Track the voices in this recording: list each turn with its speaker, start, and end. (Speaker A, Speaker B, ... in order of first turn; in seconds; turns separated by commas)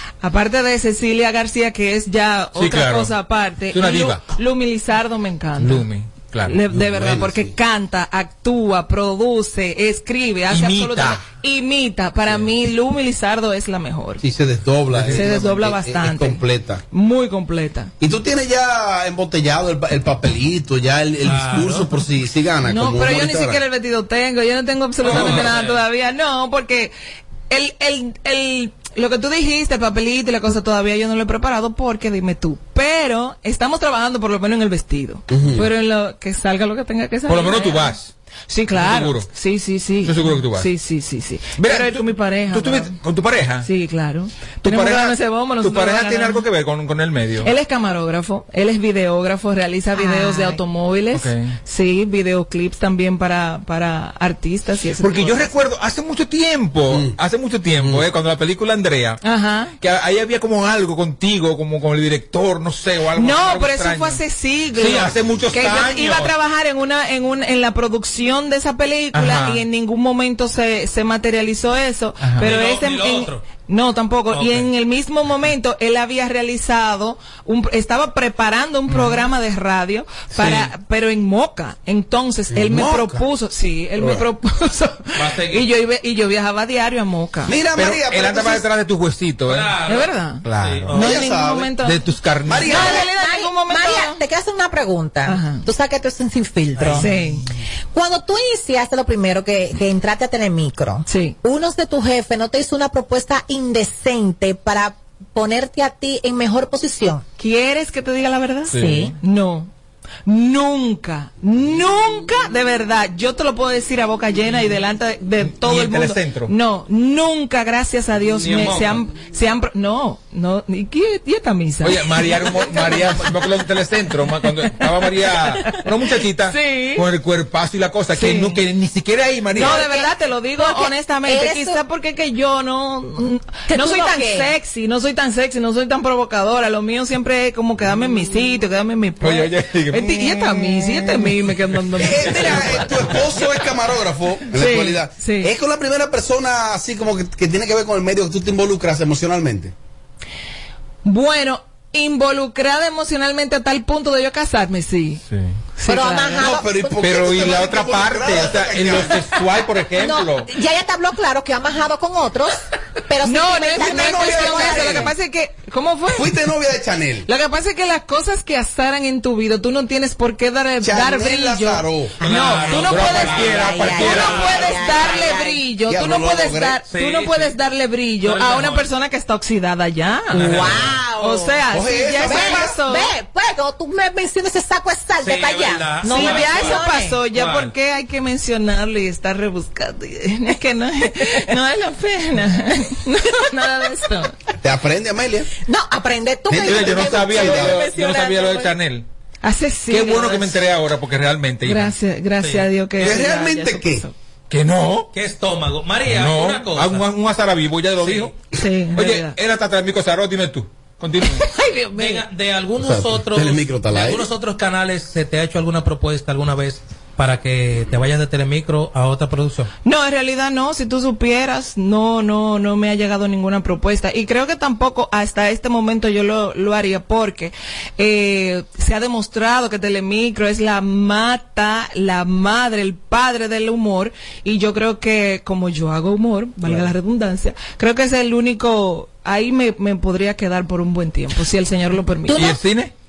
Speaker A: 0.2-5.9, Speaker B: 2.6-3.1, Speaker B: 3.7-4.2, Speaker B: 5.6-6.6, Speaker A: 6.5-14.2, Speaker C: 6.7-7.5, Speaker B: 10.5-11.2, Speaker C: 14.2-16.8, Speaker B: 15.0-15.3, Speaker A: 15.1-16.4, Speaker A: 16.9-17.9, Speaker C: 18.0-23.6, Speaker D: 21.2-21.9, Speaker A: 22.6-26.9, Speaker D: 25.0-25.8, Speaker C: 25.1-25.6, Speaker A: 27.5-37.9, Speaker C: 35.3-35.7, Speaker B: 37.3-38.1, Speaker A: 38.5-43.0, Speaker B: 38.7-39.3, Speaker B: 40.0-40.7, Speaker B: 41.6-43.7, Speaker A: 43.6-46.4, Speaker B: 44.6-47.5, Speaker A: 47.4-55.5, Speaker E: 50.0-50.6, Speaker B: 51.1-51.6, Speaker B: 55.0-59.2, Speaker C: 56.9-57.1, Speaker C: 57.8-58.0, Speaker A: 59.2-59.8, Speaker B: 59.8-64.2, Speaker A: 63.1-87.5, Speaker B: 64.8-66.3, Speaker B: 69.1-69.6, Speaker B: 72.2-72.5, Speaker D: 72.4-73.5, Speaker D: 74.3-74.7, Speaker B: 78.9-79.2, Speaker D: 80.4-80.7, Speaker C: 82.5-83.2, Speaker C: 84.0-84.2, Speaker D: 85.2-85.7, Speaker C: 87.5-88.7, Speaker B: 87.8-89.8, Speaker D: 89.5-91.2, Speaker A: 89.9-90.5, Speaker B: 90.4-90.9, Speaker C: 90.9-91.8, Speaker A: 91.0-92.0, Speaker B: 91.8-93.0, Speaker C: 92.5-93.0, Speaker A: 92.6-94.2, Speaker E: 92.7-97.1, Speaker A: 95.3-95.7, Speaker D: 96.8-97.1, Speaker A: 97.0-97.4, Speaker E: 97.9-107.2, Speaker A: 101.1-101.4, Speaker A: 107.4-109.7, Speaker B: 108.7-109.1, Speaker E: 108.7-109.1, Speaker A: 110.3-123.4, Speaker B: 115.4-116.5, Speaker D: 118.3-119.0, Speaker B: 118.5-118.8, Speaker B: 121.8-129.8, Speaker A: 124.8-125.8, Speaker A: 126.5-127.1, Speaker A: 128.1-128.6, Speaker A: 129.5-143.4, Speaker E: 129.6-131.8, Speaker E: 133.7-134.5, Speaker B: 139.2-142.0, Speaker C: 142.0-149.7, Speaker A: 144.5-145.5, Speaker A: 151.1-155.2, Speaker B: 155.3-155.6, Speaker A: 155.8-156.5, Speaker E: 155.9-157.0, Speaker C: 156.3-159.3, Speaker B: 157.0-160.5, Speaker E: 160.0-165.1, Speaker A: 163.2-166.4, Speaker C: 163.8-165.1, Speaker C: 166.1-167.3, Speaker A: 167.3-180.5, Speaker C: 170.8-172.2, Speaker D: 172.2-175.3, Speaker B: 172.3-174.6, Speaker E: 172.9-175.6, Speaker C: 175.9-176.8, Speaker D: 176.9-177.6, Speaker D: 178.2-178.9, Speaker E: 180.3-181.6, Speaker D: 180.3-181.0, Speaker A: 181.2-183.1, Speaker C: 181.7-182.7, Speaker E: 182.2-187.2, Speaker D: 185.2-187.7, Speaker A: 186.1-194.3, Speaker C: 194.6-195.5, Speaker E: 195.7-198.1, Speaker C: 196.5-197.8, Speaker B: 196.7-199.1, Speaker A: 197.5-198.8, Speaker A: 199.4-200.6, Speaker B: 199.9-201.9, Speaker A: 201.7-204.1, Speaker D: 202.4-203.3, Speaker C: 203.0-204.1, Speaker B: 204.5-205.1, Speaker D: 205.1-207.1, Speaker B: 206.1-208.3, Speaker D: 208.0-208.3, Speaker A: 208.6-209.4, Speaker B: 208.9-211.4, Speaker A: 211.3-212.2, Speaker D: 211.9-219.7, Speaker C: 212.8-214.3, Speaker A: 219.8-242.6, Speaker B: 242.3-242.9